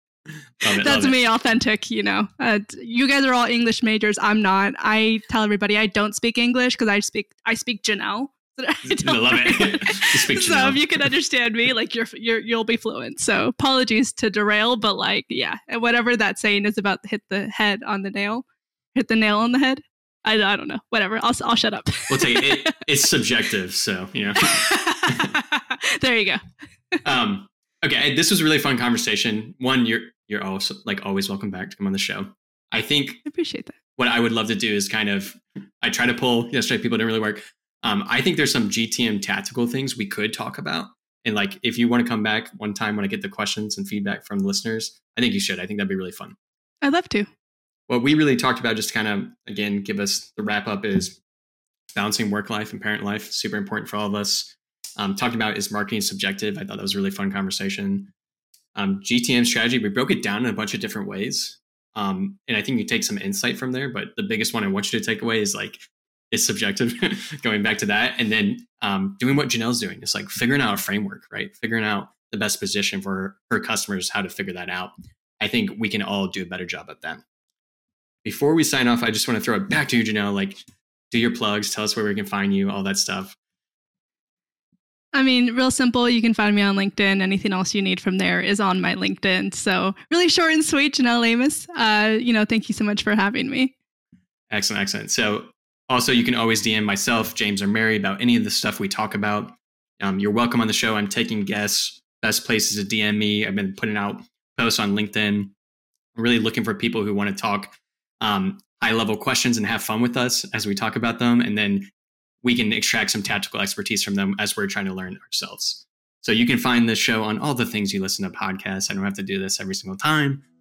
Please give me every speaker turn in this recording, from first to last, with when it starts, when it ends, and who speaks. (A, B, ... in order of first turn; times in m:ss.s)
0:00.6-0:01.2 A
0:00.7-0:22.8 B
0:08.8-0:11.0 A
0:22.1-0:25.3 A
0:24.4-0:26.4 B
0:27.0-0:33.2 A
0:33.2-0:33.8 B
0:34.0-0:46.4 A
0:46.8-0:47.3 B
0:47.9-0:51.2 A
0:51.9-0:58.1 A
0:58.7-1:17.2 A
1:18.2-1:23.4 A
1:25.1-1:33.7 B
1:34.5-1:45.5 A
1:46.1-1:51.9 A
1:52.4-2:00.4 A